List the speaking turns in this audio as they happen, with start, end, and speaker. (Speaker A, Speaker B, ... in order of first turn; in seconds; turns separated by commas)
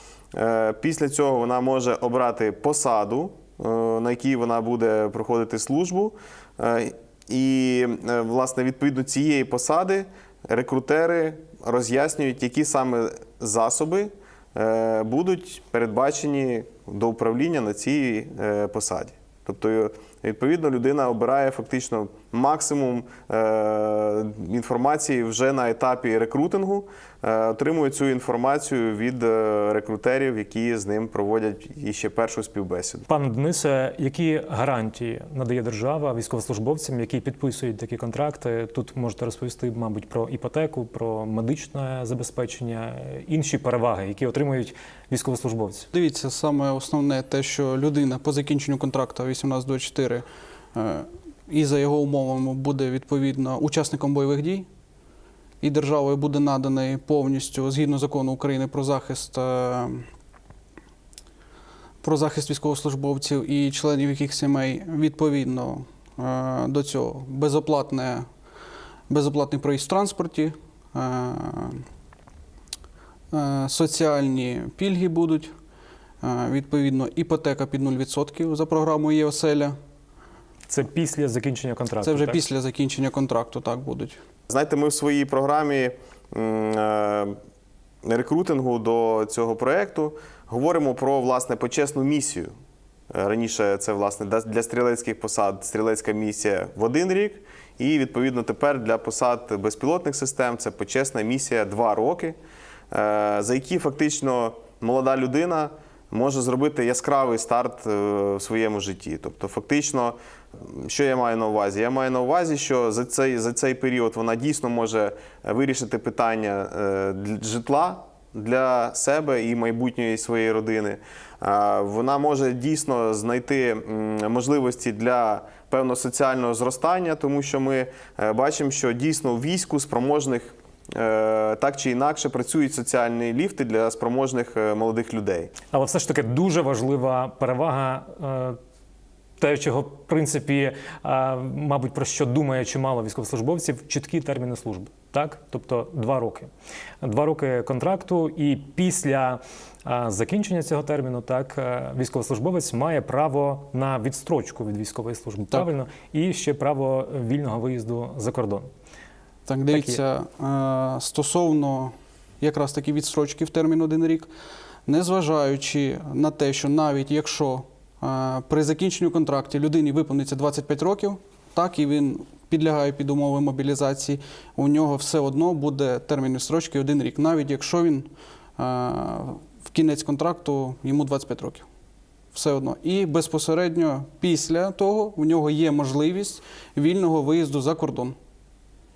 Speaker A: 0.3-33.1, Speaker B: 33.1-45.9, Speaker C: 45.9-54.6, Speaker C: 55.6-60.1, Speaker C: 62.0-68.2, Speaker C: 69.1-71.8, Speaker C: 73.3-75.5, Speaker C: 76.2-79.7, Speaker B: 80.7-82.4, Speaker C: 82.0-84.2, Speaker A: 84.5-87.3, Speaker A: 88.0-92.5, Speaker A: 93.1-102.4, Speaker A: 102.9-135.5, Speaker B: 135.7-138.6, Speaker B: 139.4-146.5, Speaker B: 147.0-158.7, Speaker C: 159.5-164.3, Speaker B: 159.7-160.0, Speaker C: 164.9-181.7, Speaker C: 182.3-188.2